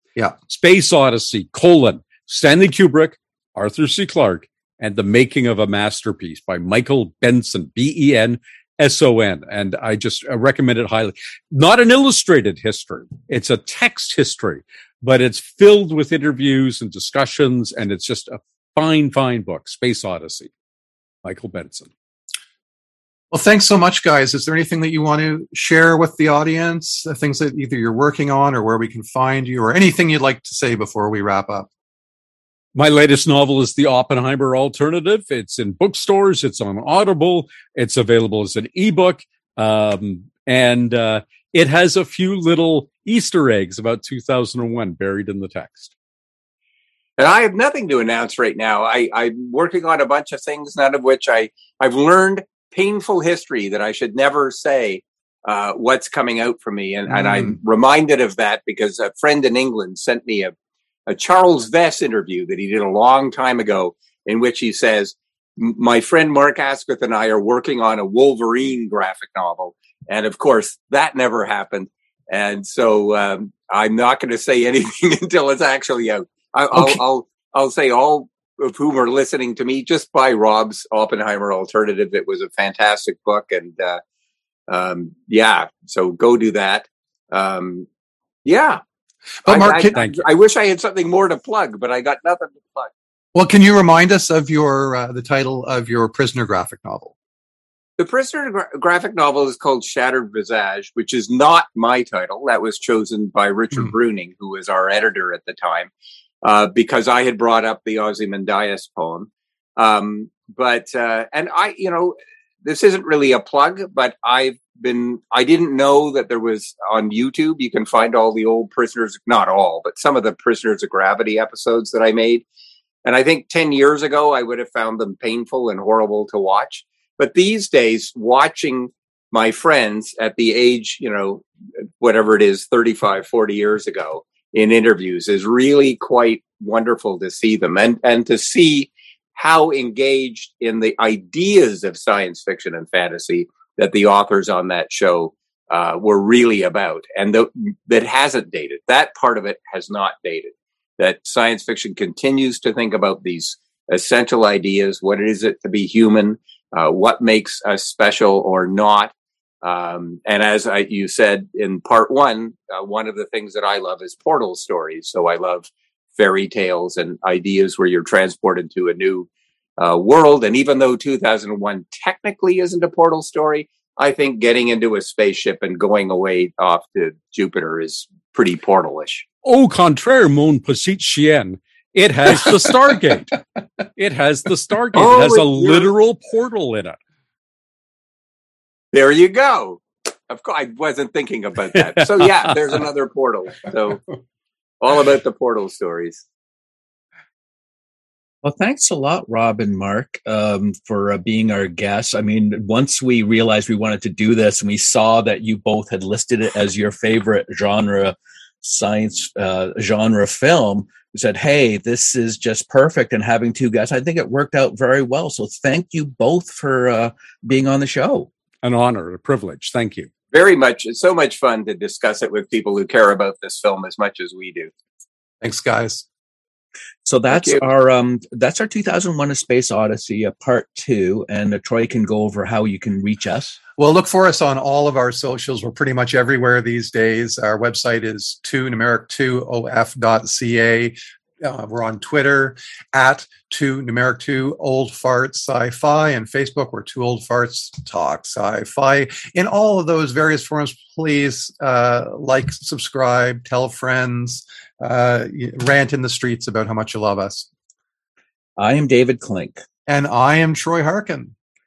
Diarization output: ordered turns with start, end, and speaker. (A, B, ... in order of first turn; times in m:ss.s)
0:00.5-0:20.5 A
0:21.2-0:21.9 A
0:23.3-0:31.7 B
0:32.8-0:45.9 A
0:47.2-1:00.5 C
1:01.1-1:24.0 C
1:16.7-1:17.0 B
1:24.7-1:27.9 C
1:28.4-1:28.8 C
1:29.4-1:30.0 B
1:29.4-1:32.9 C
1:29.9-1:30.2 A
1:33.3-1:37.1 B
1:38.0-1:45.9 C
1:46.4-2:02.4 C
2:03.0-2:11.4 C
2:12.0-2:59.2 C
2:59.4-3:03.4 A
3:04.0-3:07.0 A
3:05.0-3:05.9 C
3:08.9-3:14.0 C
3:11.8-3:12.5 A
3:14.8-3:16.2 C
3:18.4-3:38.3 D
3:38.6-3:40.1 A
3:40.3-3:44.7 C
3:45.4-3:46.0 B
3:47.1-3:53.6 D
3:47.3-3:47.6 C
3:53.8-4:17.5 B
4:18.6-4:19.6 D
4:19.9-4:21.3 B